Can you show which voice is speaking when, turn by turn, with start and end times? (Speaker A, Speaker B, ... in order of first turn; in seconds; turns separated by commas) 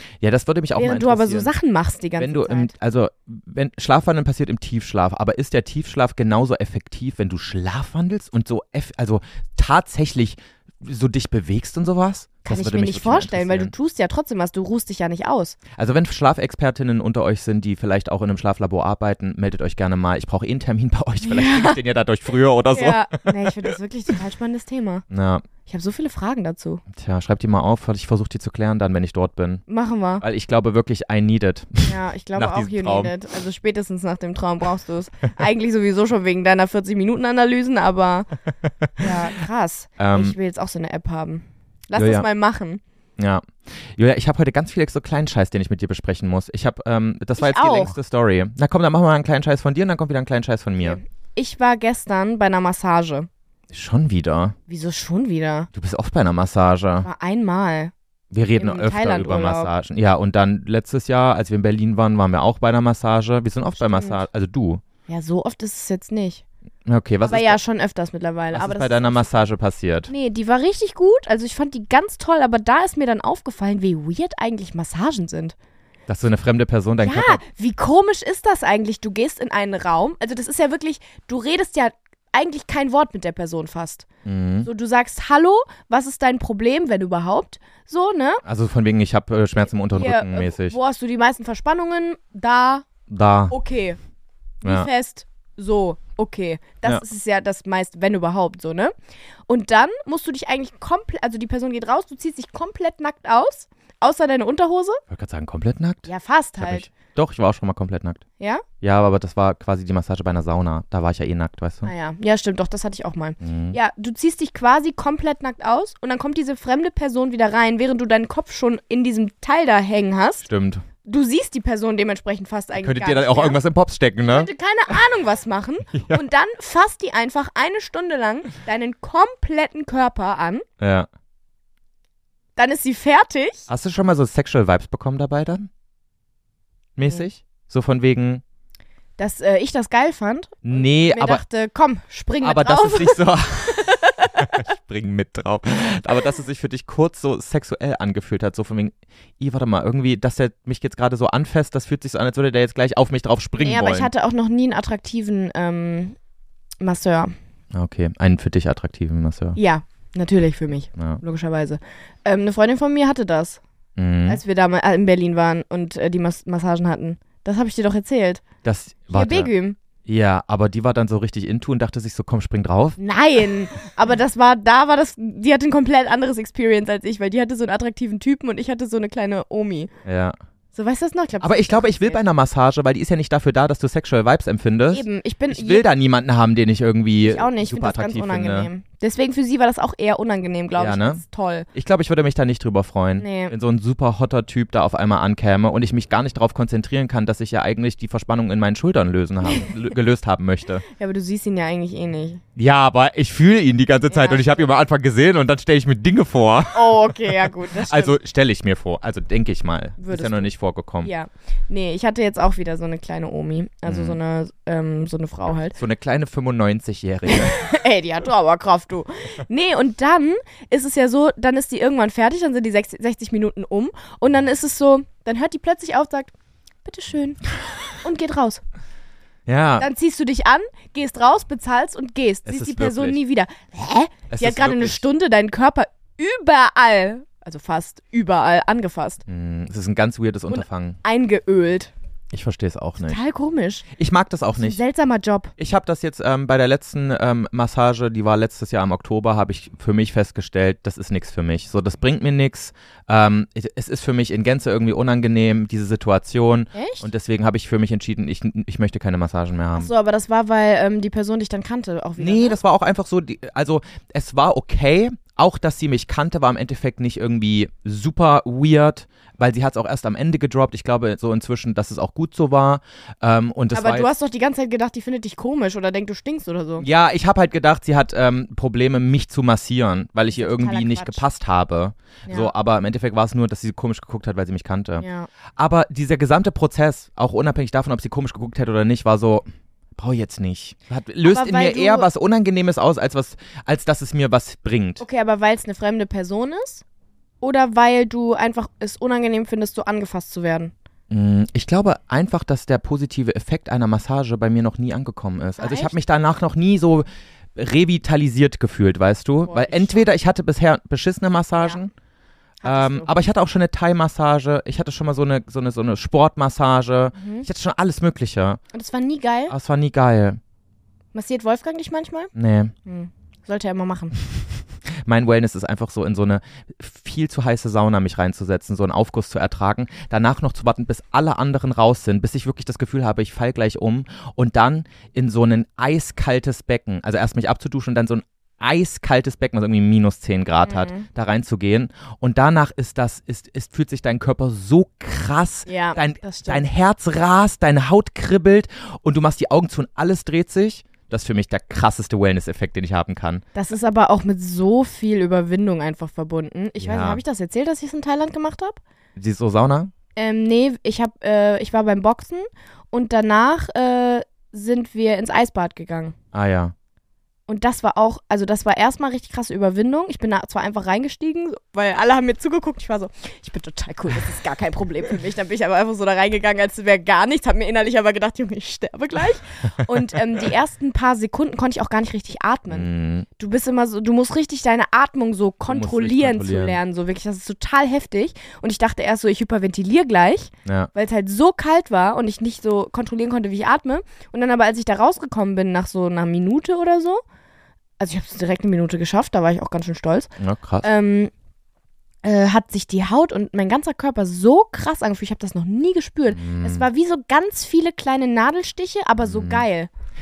Speaker A: 0.2-1.5, Speaker B: 0.8-2.7, Speaker A: 2.2-13.7, Speaker B: 12.5-15.6, Speaker A: 15.7-23.7, Speaker B: 21.2-21.8, Speaker B: 22.7-25.1, Speaker A: 25.1-25.4, Speaker B: 25.6-26.8, Speaker A: 26.9-29.6, Speaker B: 29.7-30.2, Speaker A: 30.2-33.1, Speaker B: 31.9-38.3, Speaker A: 38.7-39.1, Speaker B: 39.0-42.8, Speaker A: 40.0-40.4, Speaker A: 41.9-42.3, Speaker A: 43.2-51.0, Speaker B: 47.4-48.0, Speaker B: 50.8-53.3, Speaker A: 53.7-54.6, Speaker B: 54.7-55.7, Speaker A: 55.7-57.1, Speaker B: 57.0-57.9, Speaker A: 58.3-64.8, Speaker B: 58.6-59.7, Speaker B: 63.9-64.2, Speaker B: 65.1-66.4, Speaker A: 66.9-67.6, Speaker B: 67.3-69.4, Speaker A: 68.5-70.1, Speaker B: 70.1-75.5, Speaker A: 76.1-77.4, Speaker B: 77.0-84.1, Speaker A: 84.2-84.7, Speaker B: 84.6-88.4, Speaker A: 88.4-90.8, Speaker B: 89.9-92.9, Speaker A: 93.1-93.5, Speaker B: 93.5-94.0, Speaker B: 94.6-98.9, Speaker A: 94.6-94.9, Speaker B: 99.5-105.0, Speaker A: 105.1-108.2, Speaker B: 106.1-106.9, Speaker B: 108.4-108.7, Speaker A: 108.8-111.9, Speaker B: 111.8-120.5, Speaker A: 113.4-113.8, Speaker A: 120.4-120.8, Speaker B: 121.0-123.6, Speaker A: 122.7-124.5, Speaker B: 124.3-130.7, Speaker A: 125.9-126.2, Speaker A: 130.8-131.1, Speaker B: 132.6-133.7, Speaker A: 133.7-135.7, Speaker A: 137.0-138.4, Speaker B: 139.2-144.5, Speaker A: 140.6-141.4, Speaker A: 142.4-154.1, Speaker B: 153.6-156.2, Speaker B: 156.8-157.3, Speaker A: 157.7-159.6, Speaker B: 159.6-163.6, Speaker A: 164.0-164.4, Speaker B: 164.3-168.4, Speaker A: 168.6-169.5, Speaker B: 169.1-169.8, Speaker A: 170.1-173.0, Speaker B: 173.0-179.9, Speaker A: 180.1-180.4, Speaker B: 180.7-182.2, Speaker A: 181.4-188.7, Speaker B: 184.9-185.9, Speaker B: 187.2-191.7, Speaker A: 190.8-191.2, Speaker A: 191.7-200.8, Speaker B: 193.2-193.5, Speaker B: 200.9-202.4, Speaker A: 202.6-211.1, Speaker B: 204.1-204.7, Speaker B: 206.7-208.2, Speaker B: 210.0-210.5, Speaker B: 211.0-215.8, Speaker A: 213.9-214.2, Speaker A: 215.8-217.7, Speaker B: 217.3-226.3, Speaker B: 226.8-227.4, Speaker B: 228.0-228.6, Speaker A: 229.5-229.9, Speaker B: 229.8-239.2, Speaker A: 232.5-233.2, Speaker A: 234.3-235.0, Speaker A: 239.3-241.0, Speaker B: 240.5-241.9, Speaker A: 242.3-243.2, Speaker B: 243.0-243.9, Speaker A: 243.9-244.8, Speaker B: 244.6-245.5, Speaker A: 245.6-259.9, Speaker B: 256.7-257.1, Speaker B: 259.8-262.6, Speaker A: 262.2-274.1, Speaker B: 273.7-276.9, Speaker A: 276.8-285.1, Speaker B: 280.3-281.2, Speaker B: 282.3-282.5, Speaker B: 285.0-285.3, Speaker A: 285.6-289.4, Speaker A: 290.0-295.0, Speaker B: 291.3-292.1, Speaker B: 295.0-296.8, Speaker B: 297.4-300.7, Speaker A: 301.1-311.9, Speaker B: 305.6-305.9, Speaker B: 309.5-310.1, Speaker B: 312.6-313.1, Speaker A: 312.6-318.6, Speaker B: 317.1-317.5, Speaker B: 318.7-319.5, Speaker A: 319.5-320.4, Speaker B: 321.1-322.3, Speaker A: 322.4-322.7, Speaker B: 322.9-324.2, Speaker A: 325.0-353.4, Speaker B: 340.7-341.1, Speaker B: 345.7-346.7, Speaker B: 353.6-358.8, Speaker A: 356.8-357.2, Speaker A: 359.2-359.9, Speaker B: 360.2-366.1, Speaker A: 366.3-366.7, Speaker B: 367.5-397.2, Speaker A: 382.7-383.3, Speaker A: 385.7-386.8, Speaker A: 390.6-390.9, Speaker B: 398.0-400.3, Speaker A: 400.4-400.9, Speaker B: 400.8-401.3, Speaker B: 402.2-409.9, Speaker A: 406.3-406.9, Speaker A: 409.2-409.7